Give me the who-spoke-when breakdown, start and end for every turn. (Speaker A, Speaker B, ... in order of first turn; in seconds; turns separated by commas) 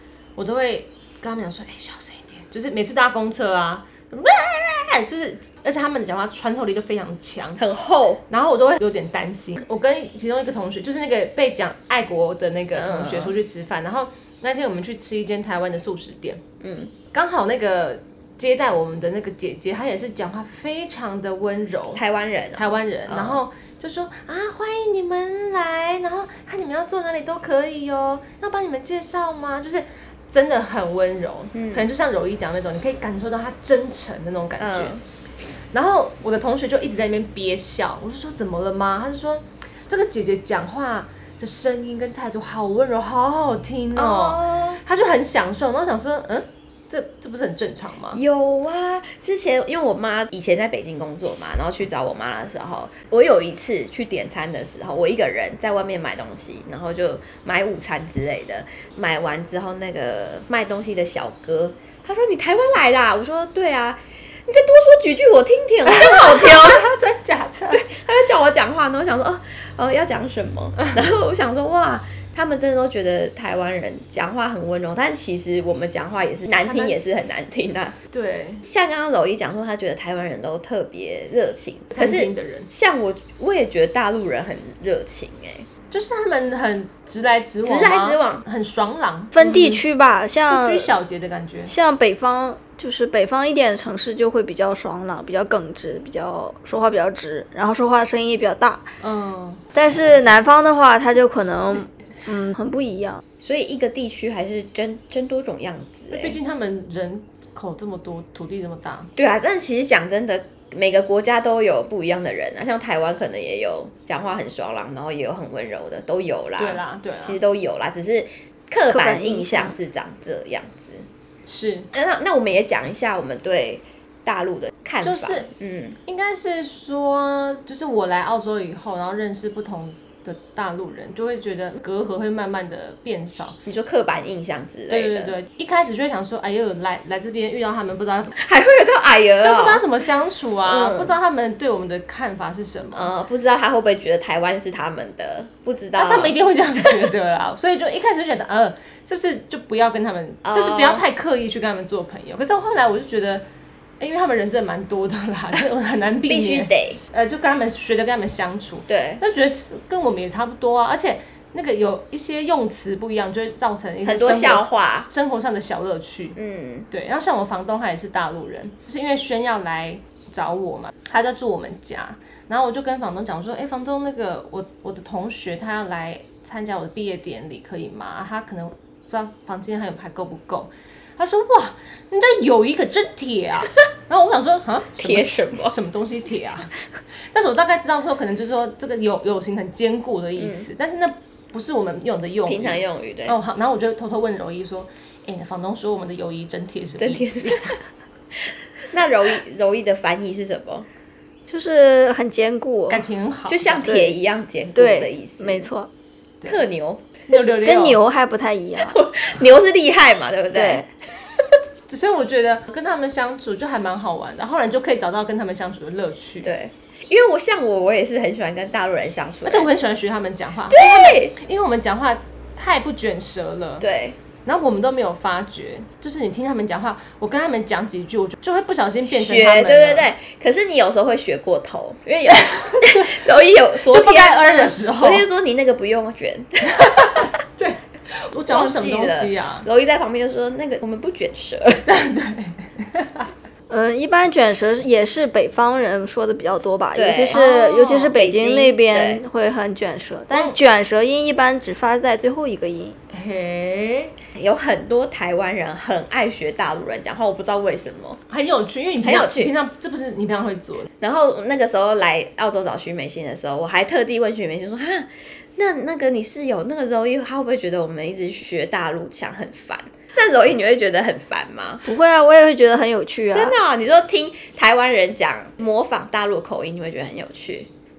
Speaker A: 0.4-7.6, Speaker B: 7.6-8.2, Speaker A: 8.3-16.4, Speaker B: 12.7-13.4, Speaker B: 16.6-16.9, Speaker A: 17.1-22.0, Speaker B: 21.9-23.4, Speaker A: 22.6-35.0, Speaker B: 31.5-31.9, Speaker B: 34.6-35.0, Speaker A: 35.7-48.2, Speaker B: 43.9-44.8, Speaker B: 48.1-66.9, Speaker A: 65.9-67.8, Speaker B: 67.7-78.0, Speaker A: 70.8-71.0, Speaker A: 76.6-77.0, Speaker A: 78.1-78.6, Speaker B: 78.6-85.7, Speaker A: 81.9-82.7, Speaker A: 85.9-89.8, Speaker B: 87.6-88.4, Speaker C: 89.3-90.9, Speaker A: 90.5-91.7, Speaker C: 91.7-98.9, Speaker A: 99.0-99.6, Speaker C: 99.7-103.2, Speaker B: 103.4-106.4, Speaker A: 106.1-109.1, Speaker B: 109.2-121.1, Speaker A: 116.6-117.4, Speaker C: 118.9-119.8, Speaker A: 121.5-121.9, Speaker B: 121.9-126.0, Speaker A: 125.0-125.5, Speaker A: 126.1-133.6, Speaker B: 133.7-135.4, Speaker A: 134.9-138.4, Speaker B: 138.4-139.9, Speaker A: 139.4-143.1, Speaker B: 140.7-141.2, Speaker B: 142.9-147.1, Speaker A: 145.9-153.4, Speaker B: 150.4-151.1, Speaker A: 154.0-166.4, Speaker B: 156.3-157.0, Speaker B: 158.9-159.2, Speaker B: 164.0-165.1, Speaker B: 166.4-166.9, Speaker A: 166.9-197.8, Speaker B: 185.0-185.8, Speaker B: 190.4-190.7, Speaker B: 192.5-193.4, Speaker B: 197.0-197.8, Speaker B: 198.8-200.9, Speaker C: 201.5-203.0, Speaker A: 202.9-203.9, Speaker B: 203.5-205.7, Speaker C: 203.8-204.2, Speaker C: 204.8-205.9, Speaker B: 206.4-207.1, Speaker A: 207.3-208.0, Speaker C: 207.6-209.0, Speaker B: 208.8-210.9, Speaker C: 210.5-210.9, Speaker A: 211.9-216.5, Speaker B: 216.4-219.7, Speaker A: 219.4-223.9, Speaker B: 220.7-221.4, Speaker B: 223.8-224.2, Speaker A: 224.4-230.1, Speaker B: 229.1-237.3, Speaker A: 232.3-233.3, Speaker A: 233.8-235.2, Speaker A: 236.8-239.7, Speaker B: 238.5-241.8, Speaker A: 241.8-243.3, Speaker C: 243.7-253.0, Speaker B: 246.9-249.2, Speaker A: 250.3-250.6, Speaker A: 253.1-254.1, Speaker B: 254.3-258.2, Speaker A: 258.3-260.9, Speaker B: 259.0-259.5, Speaker B: 261.0-271.9, Speaker C: 271.9-273.6, Speaker B: 273.3-277.7